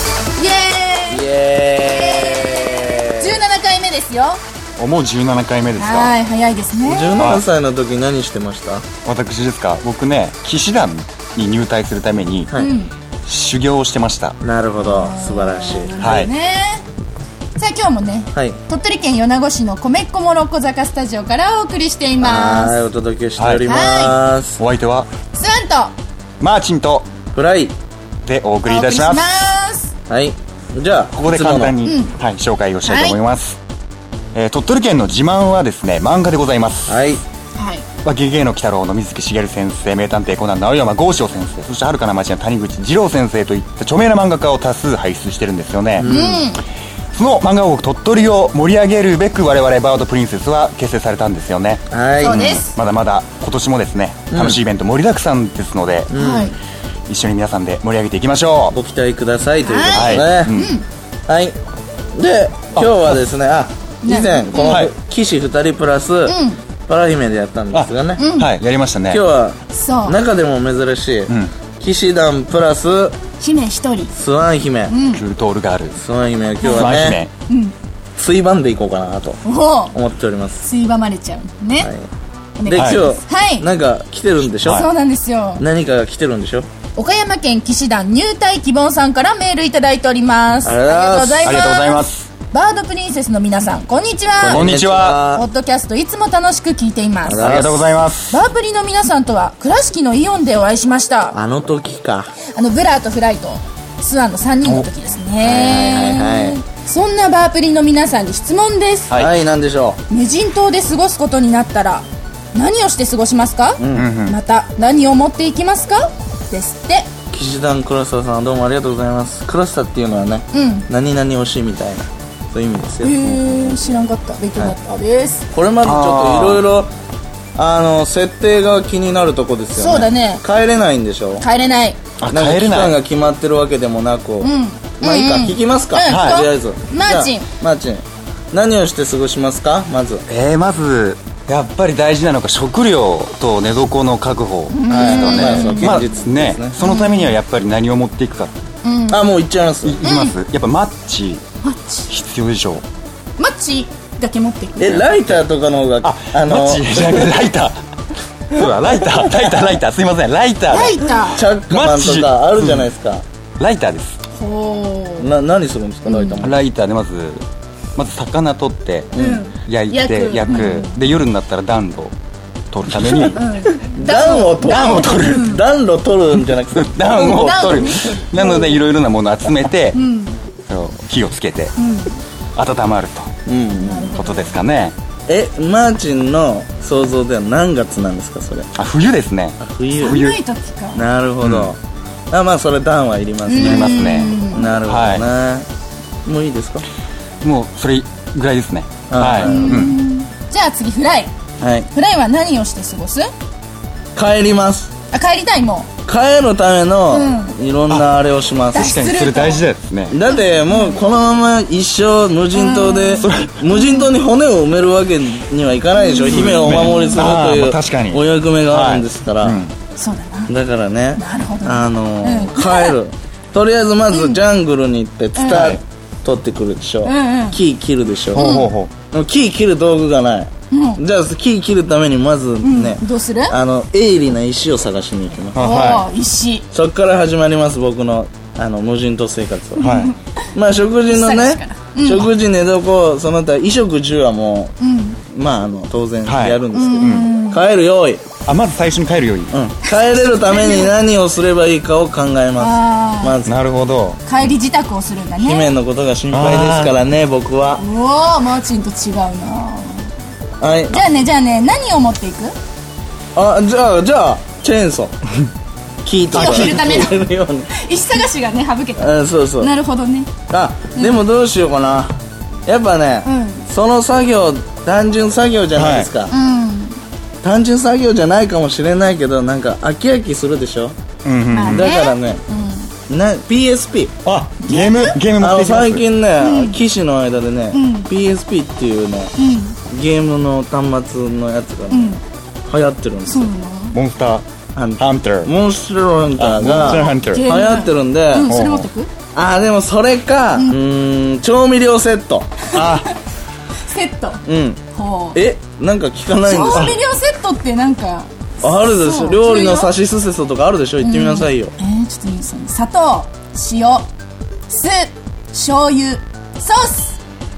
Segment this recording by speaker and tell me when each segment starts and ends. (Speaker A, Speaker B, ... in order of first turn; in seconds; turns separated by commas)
Speaker A: 0.3-1.2, Speaker B: 1.1-3.4, Speaker A: 1.8-2.6, Speaker A: 3.2-4.4, Speaker C: 4.8-6.2, Speaker A: 5.8-7.2, Speaker B: 6.8-8.8, Speaker C: 7.2-7.4, Speaker C: 9.0-12.5, Speaker A: 12.5-12.9, Speaker C: 13.2-14.4, Speaker B: 14.4-16.0, Speaker A: 14.8-16.8, Speaker C: 16.0-16.3, Speaker A: 17.6-22.8, Speaker B: 18.3-18.6, Speaker B: 22.2-24.6, Speaker C: 23.4-23.6, Speaker A: 23.6-24.2, Speaker C: 24.6-25.1, Speaker A: 25.3-25.9, Speaker C: 26.4-27.1, Speaker B: 27.3-27.7, Speaker C: 28.2-29.4, Speaker A: 28.6-29.9, Speaker B: 30.1-31.8, Speaker C: 31.1-33.6, Speaker A: 31.8-32.1, Speaker A: 32.9-33.2, Speaker C: 34.3-37.0, Speaker B: 36.9-37.2, Speaker A: 37.5-37.9, Speaker C: 38.0-46.1, Speaker B: 46.0-46.5, Speaker A: 46.0-46.6, Speaker C: 47.1-56.1, Speaker B: 51.9-52.5, Speaker A: 52.2-52.8, Speaker B: 54.3-54.6, Speaker B: 56.1-56.5, Speaker A: 56.1-56.5, Speaker C: 57.1-58.8, Speaker B: 58.7-60.6, Speaker A: 59.6-60.8, Speaker C: 59.9-60.7, Speaker B: 61.3-61.5, Speaker B: 62.1-68.2, Speaker C: 62.8-63.0, Speaker A: 64.0-64.9, Speaker C: 64.6-64.9, Speaker A: 66.2-66.6, Speaker C: 67.7-69.2, Speaker A: 68.2-68.5, Speaker B: 69.1-73.2, Speaker A: 69.7-70.2, Speaker A: 73.4-74.1, Speaker B: 74.1-75.0, Speaker A: 74.9-75.2, Speaker C: 75.1-76.0, Speaker B: 76.0-77.2, Speaker A: 76.6-77.7, Speaker C: 76.7-77.3, Speaker B: 78.2-80.7, Speaker A: 79.4-79.9, Speaker A: 80.6-81.9, Speaker B: 81.8-82.0, Speaker A: 82.6-83.7, Speaker B: 82.6-84.9, Speaker C: 82.7-83.0, Speaker A: 84.6-85.6, Speaker B: 85.6-86.7, Speaker A: 86.9-97.5, Speaker B: 90.6-91.7, Speaker C: 91.4-92.3, Speaker B: 94.4-95.5, Speaker C: 94.5-95.2, Speaker B: 97.2-97.8, Speaker C: 97.4-98.4, Speaker A: 98.3-101.4, Speaker B: 101.3-102.3, Speaker A: 102.5-109.2, Speaker B: 105.4-106.6, Speaker B: 109.1-110.0, Speaker A: 110.1-117.1, Speaker B: 113.8-114.1, Speaker C: 113.9-114.4, Speaker B: 117.3-123.8, Speaker A: 120.5-120.9, Speaker A: 123.0-125.4, Speaker B: 125.5-126.9, Speaker C: 125.8-126.7, Speaker B: 127.5-131.4, Speaker A: 129.7-130.4, Speaker A: 131.4-132.0, Speaker C: 132.2-133.0, Speaker B: 132.3-140.2, Speaker A: 134.4-137.5, Speaker C: 136.1-136.4, Speaker C: 140.3-148.5, Speaker A: 144.7-146.0, Speaker B: 144.9-146.8, Speaker A: 146.8-147.4, Speaker A: 148.8-149.2, Speaker B: 149.1-150.0, Speaker C: 149.8-151.4, Speaker A: 150.0-150.3, Speaker A: 151.6-152.1, Speaker C: 152.1-152.8, Speaker A: 153.4-155.0, Speaker B: 154.8-157.4, Speaker C: 156.0-157.8, Speaker C: 158.5-161.1, Speaker B: 159.3-159.6, Speaker A: 160.7-161.4, Speaker B: 161.2-163.2, Speaker C: 161.7-162.9, Speaker C: 163.6-164.2, Speaker A: 164.3-165.3, Speaker B: 165.2-166.6, Speaker A: 166.0-166.4, Speaker C: 166.4-167.4, Speaker C: 167.9-172.1, Speaker B: 169.1-169.4, Speaker A: 169.2-171.0, Speaker C: 172.7-173.4, Speaker A: 173.2-175.6, Speaker B: 173.7-177.7, Speaker C: 174.6-175.5, Speaker C: 176.7-180.0, Speaker A: 177.0-178.8, Speaker A: 179.9-180.4, Speaker C: 180.7-181.7, Speaker A: 181.8-182.2, Speaker C: 182.6-183.3, Speaker B: 183.4-184.1, Speaker A: 183.8-184.6, Speaker C: 184.1-184.9, Speaker B: 185.3-188.7, Speaker C: 188.7-190.4, Speaker B: 189.6-190.3, Speaker A: 189.9-191.0, Speaker B: 190.9-191.8, Speaker C: 191.4-191.7, Speaker B: 192.3-195.6, Speaker A: 193.4-194.7, Speaker C: 193.6-195.3, Speaker B: 196.2-196.8, Speaker C: 197.4-200.0, Speaker B: 199.1-199.8, Speaker A: 199.4-201.3, Speaker B: 201.6-201.9, Speaker A: 201.9-203.3, Speaker B: 204.1-204.9, Speaker A: 205.1-205.9, Speaker B: 206.1-208.9, Speaker A: 207.1-207.5, Speaker A: 208.7-209.6, Speaker C: 208.8-210.2, Speaker B: 210.1-219.6, Speaker A: 210.3-211.0, Speaker A: 212.5-214.1, Speaker C: 213.2-213.6, Speaker A: 215.9-217.3, Speaker C: 216.3-219.7, Speaker A: 219.9-220.5, Speaker B: 220.5-228.5, Speaker A: 221.1-222.9, Speaker A: 224.1-224.4, Speaker A: 225.3-225.7, Speaker C: 225.5-225.8, Speaker A: 227.0-227.6, Speaker C: 228.3-228.9, Speaker A: 228.3-228.7, Speaker B: 229.1-235.6, Speaker A: 230.7-231.0, Speaker A: 232.6-233.6, Speaker C: 235.5-236.1, Speaker A: 235.5-236.6, Speaker B: 236.7-239.9, Speaker A: 239.8-240.5, Speaker C: 239.8-240.1, Speaker B: 240.5-248.3, Speaker A: 241.1-242.3, Speaker A: 244.8-245.2, Speaker C: 246.2-247.3, Speaker A: 246.7-247.6, Speaker C: 248.4-249.5, Speaker B: 249.5-253.5, Speaker A: 249.8-250.9, Speaker A: 252.6-253.4, Speaker C: 253.4-254.2, Speaker A: 254.2-255.7, Speaker B: 255.4-257.8, Speaker C: 256.3-256.9, Speaker A: 257.8-260.1, Speaker B: 260.6-261.0, Speaker A: 260.9-262.5, Speaker B: 263.3-265.1, Speaker B: 266.0-267.7, Speaker A: 266.3-267.2, Speaker C: 266.3-266.9, Speaker A: 267.7-270.3, Speaker B: 269.0-269.7, Speaker B: 270.5-272.1, Speaker A: 270.9-271.2, Speaker B: 272.7-276.3, Speaker A: 273.2-273.6, Speaker C: 275.7-276.1, Speaker A: 276.3-277.0, Speaker B: 277.4-280.9, Speaker C: 281.2-281.9, Speaker A: 281.5-282.9, Speaker B: 281.7-282.4, Speaker B: 283.1-284.1, Speaker C: 284.2-286.1, Speaker A: 284.6-285.2, Speaker B: 285.4-289.3, Speaker A: 286.4-286.8, Speaker A: 287.7-288.1, Speaker A: 289.4-289.8, Speaker B: 289.9-293.5, Speaker A: 291.9-292.2, Speaker A: 293.2-294.0, Speaker C: 293.9-295.5, Speaker B: 294.7-298.6, Speaker C: 296.4-297.5, Speaker A: 296.8-299.1, Speaker C: 298.4-298.9, Speaker B: 299.3-302.6, Speaker A: 302.7-303.1, Speaker C: 302.7-303.1, Speaker A: 303.9-305.4, Speaker B: 304.4-304.8, Speaker B: 305.3-307.0, Speaker A: 306.4-309.9, Speaker B: 308.6-311.7, Speaker A: 311.0-314.1, Speaker A: 314.7-317.2